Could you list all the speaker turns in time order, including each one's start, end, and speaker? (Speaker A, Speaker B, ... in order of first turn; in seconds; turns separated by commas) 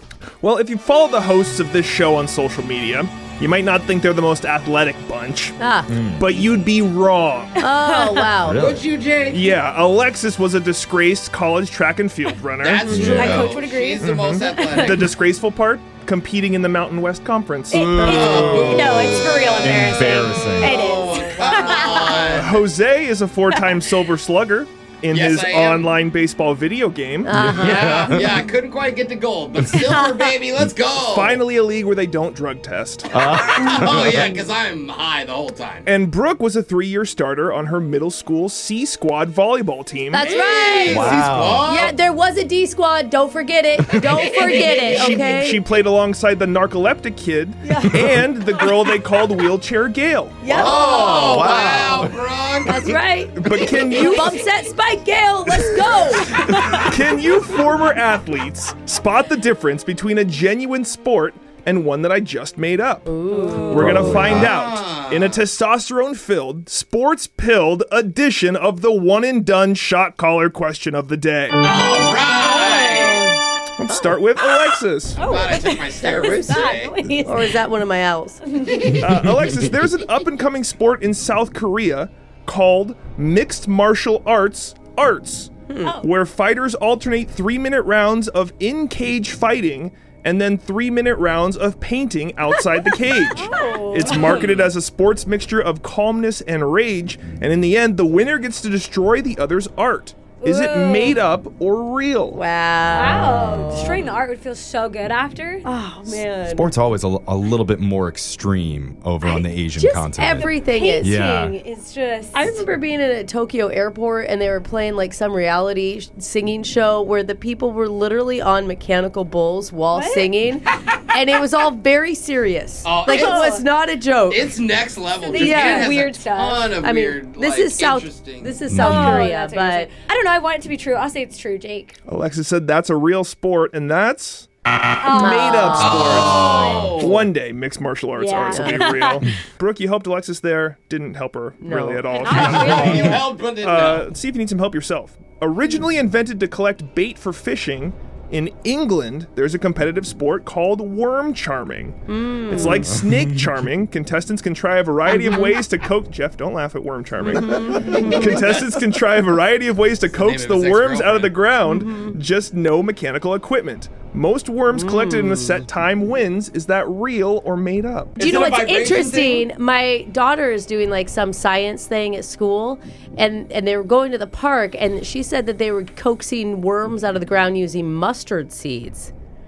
Speaker A: 0.4-5.6, Speaker B: 5.6-6.0, Speaker C: 5.9-6.2, Speaker A: 6.2-7.6, Speaker B: 7.6-8.7, Speaker D: 7.7-8.3, Speaker C: 8.4-8.8, Speaker E: 8.5-9.6, Speaker A: 9.3-13.5, Speaker E: 12.6-15.0, Speaker C: 12.9-13.5, Speaker D: 12.9-15.1, Speaker A: 14.0-18.0, Speaker D: 17.7-22.4, Speaker C: 17.7-20.8, Speaker E: 17.9-19.7, Speaker E: 20.6-22.6, Speaker A: 22.3-27.4, Speaker E: 25.1-25.9, Speaker B: 27.2-28.1, Speaker C: 27.3-28.4, Speaker E: 27.5-31.4, Speaker A: 31.0-33.1, Speaker C: 33.1-34.3, Speaker E: 33.2-35.9, Speaker B: 33.6-34.4, Speaker A: 35.9-40.4, Speaker B: 40.1-45.6, Speaker E: 40.2-42.0, Speaker C: 40.9-41.6, Speaker E: 44.0-45.1, Speaker A: 44.5-50.7, Speaker B: 47.6-48.0, Speaker B: 50.4-52.1, Speaker E: 50.5-52.9, Speaker C: 50.9-52.1, Speaker B: 52.6-56.9, Speaker A: 53.3-54.4, Speaker A: 56.8-71.6, Speaker B: 63.0-64.1, Speaker D: 63.3-64.4, Speaker C: 63.7-64.5, Speaker E: 64.4-65.4, Speaker E: 71.6-73.2, Speaker D: 72.2-73.4, Speaker A: 73.8-75.3, Speaker D: 75.2-77.5, Speaker E: 75.2-77.0, Speaker B: 77.2-78.4, Speaker D: 78.5-78.8, Speaker E: 78.7-79.1, Speaker A: 79.0-102.4, Speaker D: 93.3-94.5, Speaker E: 94.2-94.7, Speaker D: 100.4-101.2, Speaker B: 102.3-104.0, Speaker C: 102.9-104.0, Speaker D: 102.9-105.6, Speaker B: 105.6-106.7, Speaker C: 106.5-111.5, Speaker B: 109.2-111.2, Speaker D: 110.2-112.6, Speaker B: 112.3-124.6, Speaker D: 119.9-120.4, Speaker E: 122.8-123.6, Speaker D: 123.1-123.6, Speaker E: 124.3-128.6, Speaker D: 125.2-126.8, Speaker B: 125.3-126.0, Speaker B: 126.8-129.9, Speaker C: 128.7-129.2, Speaker D: 128.7-131.9, Speaker A: 132.1-134.5, Speaker D: 135.0-137.0, Speaker A: 135.1-168.3, Speaker B: 135.1-136.0, Speaker E: 135.8-137.3, Speaker D: 138.2-139.2, Speaker B: 138.5-138.8, Speaker B: 141.6-142.4, Speaker D: 142.1-143.2, Speaker E: 142.3-144.1, Speaker B: 152.1-152.9, Speaker B: 157.3-158.4, Speaker E: 160.0-161.4, Speaker B: 161.6-162.2, Speaker B: 164.7-165.6, Speaker E: 168.2-169.5, Speaker B: 168.2-179.1